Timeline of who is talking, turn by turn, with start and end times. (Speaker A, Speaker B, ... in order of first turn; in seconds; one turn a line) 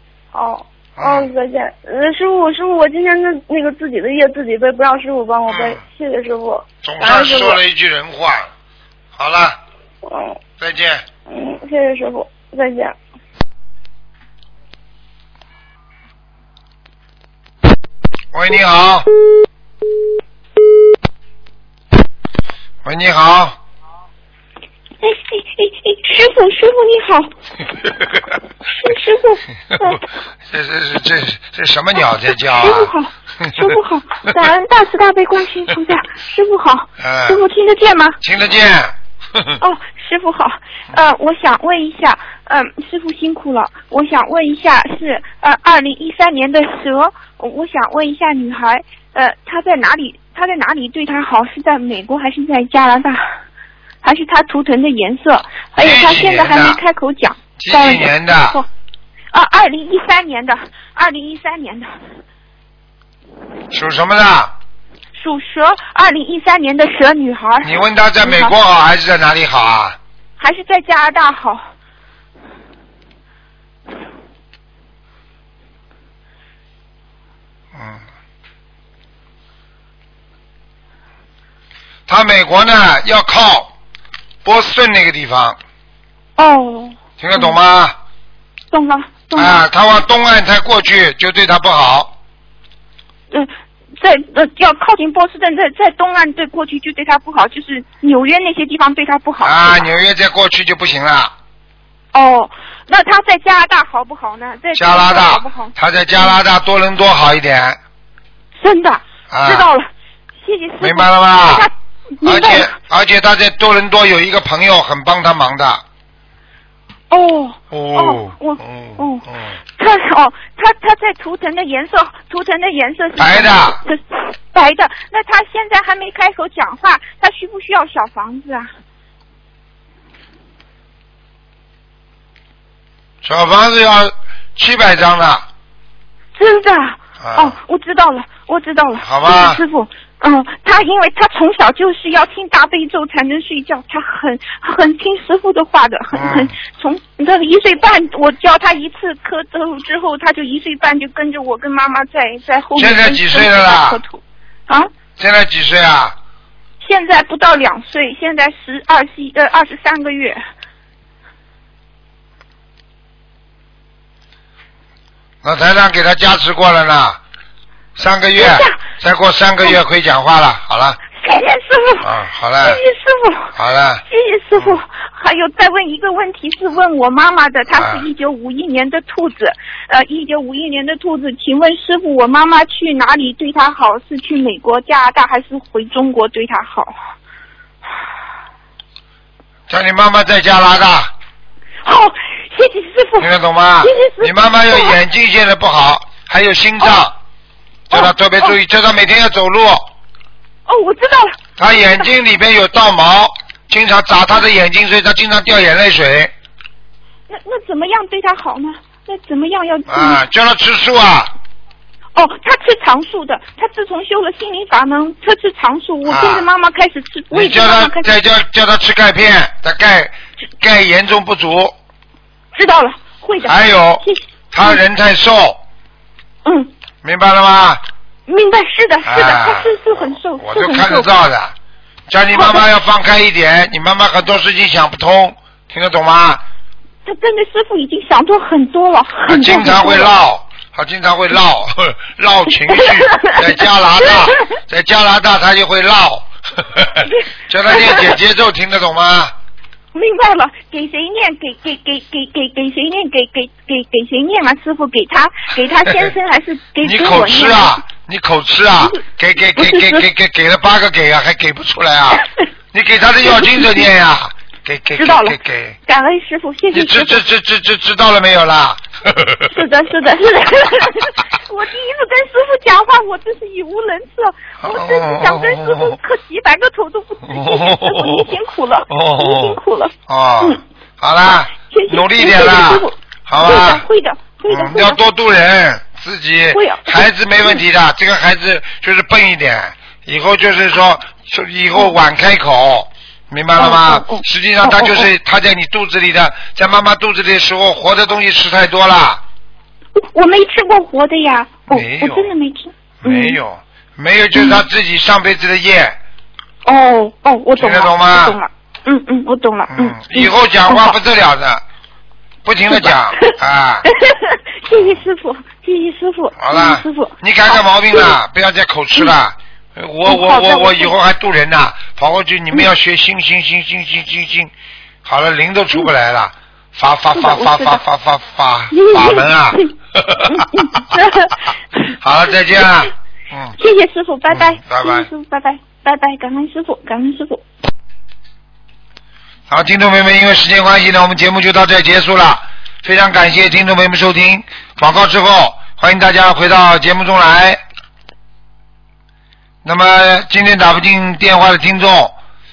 Speaker A: 0.3-7.6
Speaker B: 1.0-1.3
Speaker B: 5.5-5.8
Speaker B: 6.8-8.5
Speaker B: 9.2-9.6
Speaker A: 10.0-10.4
Speaker B: 10.6-11.1
Speaker A: 11.3-13.0
Speaker B: 18.3-19.1
Speaker B: 22.8-23.6
Speaker C: 25.0-27.3
Speaker C: 28.7-30.0
Speaker B: 30.5-32.9
Speaker C: 32.5-38.2
Speaker B: 37.0-37.4
Speaker B: 38.2-39.5
Speaker C: 39.6-53.4
Speaker C: 54.0-58.7
Speaker B: 55.8-56.8
Speaker B: 57.6-58.6
Speaker C: 59.3-61.9
Speaker B: 63.7-64.5
Speaker C: 65.1-68.5
Speaker B: 67.6-70.0
Speaker C: 70.4-71.6
Speaker B: 77.7-78.0
Speaker B: 82.1-83.7
Speaker B: 84.4-85.6
Speaker C: 86.4-87.6
Speaker B: 87.2-88.0
Speaker C: 88.7-89.6
Speaker B: 89.3-92.1
Speaker C: 93.3-99.9
Speaker B: 99.4-101.3
Speaker C: 102.1-106.4
Speaker B: 104.7-107.8
Speaker C: 108.6-112.7
Speaker B: 109.3-109.7
Speaker B: 110.8-111.7
Speaker B: 112.2-115.8
Speaker C: 117.1-128.7
Speaker B: 117.7-119.6
Speaker B: 123.2-123.8
Speaker B: 133.2-135.4
Speaker C: 136.3-154.9
Speaker B: 137.2-137.6
Speaker B: 139.0-139.6
Speaker B: 146.1-146.5
Speaker B: 152.8-154.0
Speaker B: 155.2-156.1
Speaker C: 156.8-160.4
Speaker B: 165.4-167.2
Speaker B: 167.9-171.0
Speaker C: 168.4-168.8
Speaker C: 171.2-172.1
Speaker B: 172.0-172.8
Speaker C: 172.6-173.5
Speaker B: 173.6-174.0
Speaker C: 174.1-186.9
Speaker B: 177.7-178.1
Speaker B: 189.7-191.1
Speaker C: 191.8-193.3
Speaker B: 193.2-197.1
Speaker C: 193.8-195.0
Speaker C: 197.9-198.5
Speaker B: 197.9-199.9
Speaker C: 200.7-201.4
Speaker B: 201.6-206.3
Speaker C: 207.3-210.2
Speaker B: 209.9-211.3
Speaker C: 212.1-218.1
Speaker B: 216.1-216.5
Speaker B: 217.3-221.8
Speaker C: 222.5-224.8
Speaker B: 223.4-225.6
Speaker C: 226.4-226.7
Speaker B: 227.0-227.8
Speaker C: 228.3-231.1
Speaker B: 229.1-231.6
Speaker B: 232.1-236.4
Speaker C: 232.3-232.7
Speaker C: 237.1-240.1
Speaker B: 239.3-249.3
Speaker C: 242.6-244.4
Speaker C: 247.0-248.2
Speaker C: 249.9-257.8
Speaker B: 256.8-265.8
Speaker C: 259.6-260.1
Speaker C: 263.2-263.9
Speaker C: 264.9-267.2
Speaker B: 266.7-269.5
Speaker C: 269.5-280.6
Speaker B: 274.6-275.9
Speaker B: 277.3-278.3
Speaker B: 278.9-283.9
Speaker C: 281.6-285.0
Speaker B: 284.5-299.2
Speaker C: 286.5-287.6
Speaker C: 293.6-295.1
Speaker C: 300.0-303.4
Speaker B: 301.7-302.3
Speaker B: 303.0-306.0
Speaker C: 304.4-304.6
Speaker C: 306.6-311.0
Speaker B: 307.6-308.4
Speaker B: 309.7-311.6
Speaker B: 312.4-313.9
Speaker C: 312.7-318.1
Speaker B: 314.7-315.0
Speaker B: 316.4-324.5
Speaker C: 320.1-320.9
Speaker B: 325.0-330.7
Speaker C: 327.1-327.8
Speaker C: 328.7-329.7
Speaker C: 330.2-331.9
Speaker B: 332.0-333.6
Speaker C: 333.6-337.4
Speaker B: 334.3-335.1
Speaker B: 339.5-347.6
Speaker B: 349.6-352.2